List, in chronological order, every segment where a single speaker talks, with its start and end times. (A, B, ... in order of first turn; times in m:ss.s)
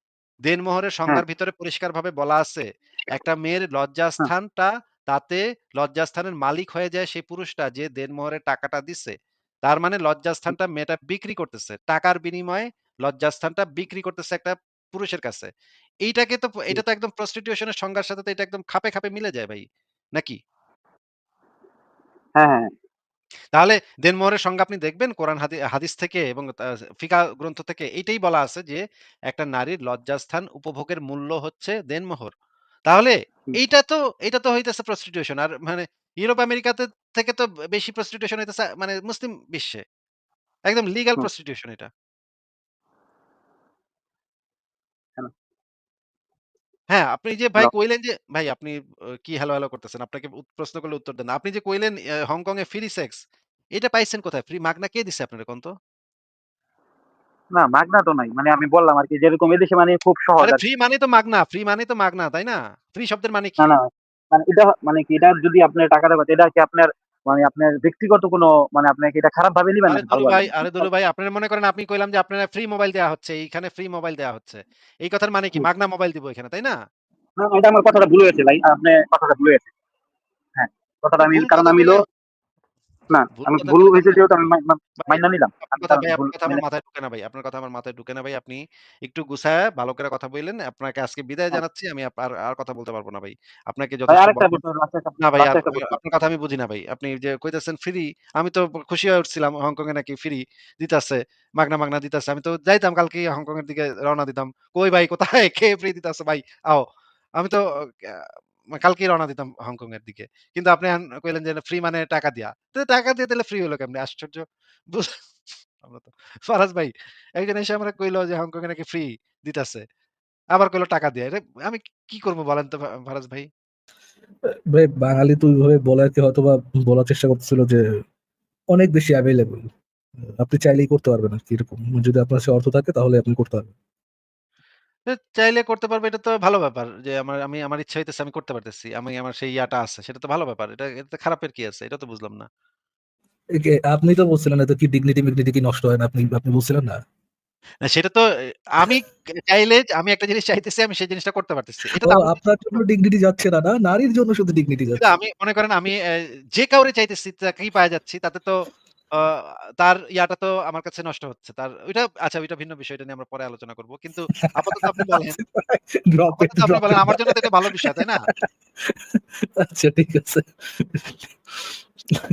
0:00.5-0:09.1 A
0:09.6-0:15.5 A
0:16.0-0:19.6 A
0:22.4-0:22.7 B
0:23.6-0:26.5 A
0:27.0-0:32.3 A
0:32.9-0:39.8 A
0:40.7-0:41.9 A
0:46.9-0:48.8 A
0:49.3-0:53.2 A
0:53.8-0:55.7 A
0:57.6-1:00.6 B
1:00.4-1:03.6 A
1:03.6-1:10.9 B
1:09.9-1:16.7 A
1:17.4-1:19.7 B
1:20.6-1:22.0 B
1:21.3-1:22.0 A
1:23.1-1:26.6 B
1:23.4-1:24.2 A
1:25.7-1:34.6 A
1:34.1-1:36.0 B
1:35.2-1:46.8 A
1:47.4-1:55.1 A
1:55.8-1:59.8 A
2:00.6-2:03.5 A
2:04.7-2:07.8 C
2:08.7-2:09.7 C
2:10.4-2:13.7 C
2:15.1-2:22.5 A
2:23.6-2:27.0 C
2:27.9-2:28.2 A
2:28.7-2:32.8 A
2:32.0-2:35.1 C
2:35.0-2:36.0 A
2:36.6-2:38.5 A
2:39.2-2:45.4 A
2:44.8-2:48.5 C
2:46.3-2:48.2 A
2:49.2-2:51.4 C